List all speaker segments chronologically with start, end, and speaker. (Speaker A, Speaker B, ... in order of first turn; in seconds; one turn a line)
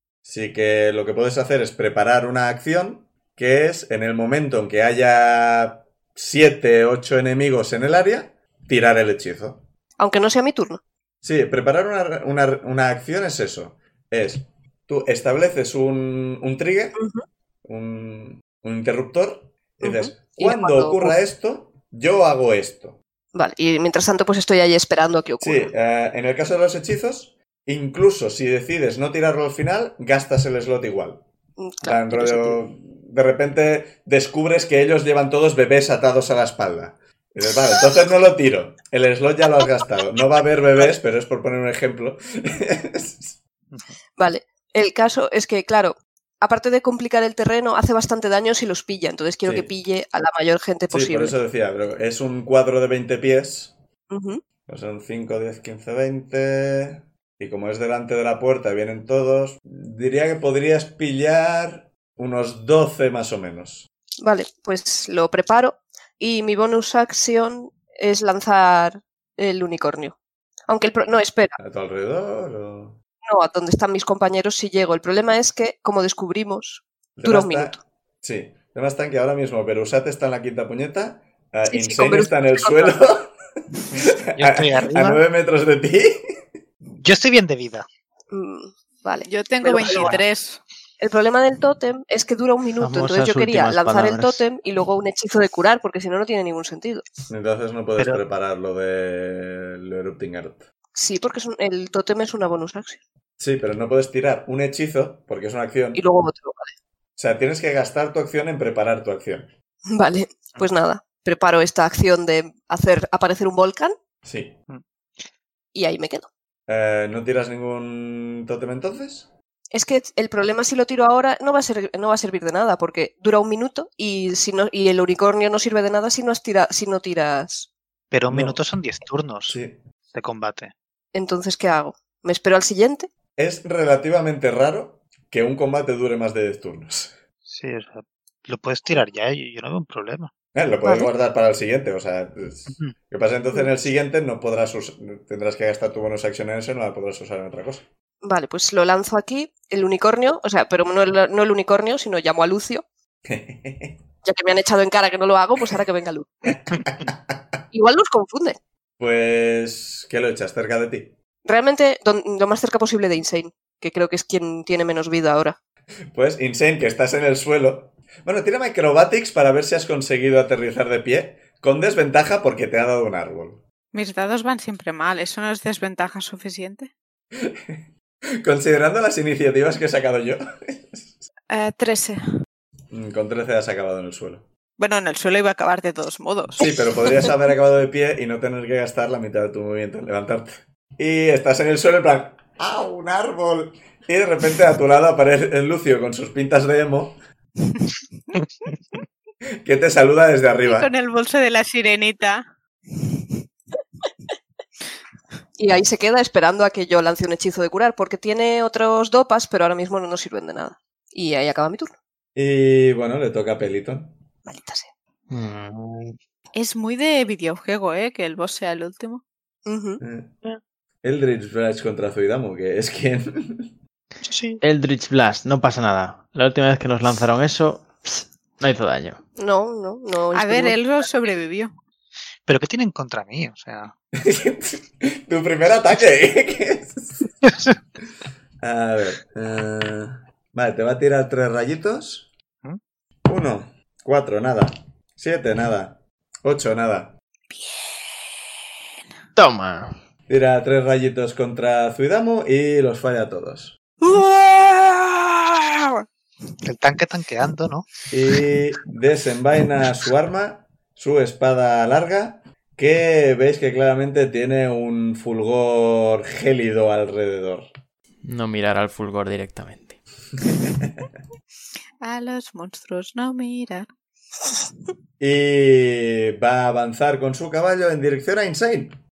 Speaker A: 0.2-9.7
Speaker B: 10.0-10.8
Speaker A: 11.2-17.0
Speaker B: 17.0-17.2
Speaker A: 17.6-23.0
Speaker B: 19.8-21.1
Speaker B: 23.3-25.7
Speaker A: 25.4-31.2
Speaker B: 31.6-32.6
Speaker A: 31.8-43.4
Speaker C: 43.7-44.0
Speaker B: 44.2-51.4
Speaker A: 49.4-49.7
Speaker A: 50.9-53.8
Speaker B: 54.1-54.4
Speaker A: 54.7-63.9
Speaker B: 64.2-70.2
Speaker B: 70.7-71.6
Speaker A: 71.6-73.0
Speaker B: 73.3-77.8
Speaker A: 77.2-83.3
Speaker B: 81.7-83.0
Speaker C: 83.9-85.2
Speaker A: 84.4-86.2
Speaker C: 87.0-87.8
Speaker B: 88.3-90.2
Speaker D: 89.3-90.6
Speaker C: 89.9-90.2
Speaker B: 91.0-97.1
Speaker E: 92.8-94.4
Speaker A: 97.3-100.7
Speaker B: 101.0-103.0
Speaker A: 103.4-106.0
Speaker B: 106.0-106.7
Speaker A: 107.2-109.5
Speaker B: 109.9-114.0
Speaker A: 114.2-114.6
Speaker B: 115.7-116.3
Speaker A: 116.7-119.3
Speaker B: 119.7-127.7
Speaker C: 128.1-129.6
Speaker A: 128.3-128.6
Speaker A: 129.5-129.8
Speaker C: 130.1-130.7
Speaker B: 131.1-133.1
Speaker A: 133.4-137.2
Speaker C: 137.5-140.3
Speaker A: 140.6-147.9
Speaker B: 140.8-141.1
Speaker B: 148.2-152.8
Speaker A: 153.2-154.0
Speaker B: 154.2-156.5
Speaker A: 156.5-157.4
Speaker B: 157.7-158.6
Speaker A: 159.0-161.2
Speaker B: 161.4-165.6
Speaker A: 166.1-173.6
Speaker D: 173.9-176.9
Speaker A: 177.3-177.8
Speaker A: 178.4-181.2
Speaker D: 181.5-182.2
Speaker A: 182.9-184.5
Speaker D: 184.8-186.7
Speaker A: 186.6-197.2
Speaker C: 198.3-199.0
Speaker A: 199.6-200.9
Speaker D: 200.6-202.5
Speaker B: 205.6-211.9
Speaker A: 212.3-214.2
Speaker B: 214.5-214.9
Speaker E: 215.3-216.2
Speaker D: 216.6-219.2
Speaker B: 219.7-220.0
Speaker A: 220.0-220.3
Speaker A: 221.0-223.7
Speaker C: 224.2-224.6
Speaker E: 224.6-229.2
Speaker B: 229.4-230.8
Speaker D: 230.3-231.7
Speaker C: 232.5-233.9
Speaker A: 234.2-237.3
Speaker C: 237.4-237.8
Speaker A: 238.6-242.3
Speaker A: 243.3-247.1
Speaker D: 247.5-248.4
Speaker E: 249.4-249.9
Speaker A: 250.3-253.8
Speaker D: 254.0-256.0
Speaker C: 256.6-257.9
Speaker A: 258.1-267.7
Speaker E: 268.2-270.0
Speaker D: 272.0-273.9
Speaker A: 275.2-279.0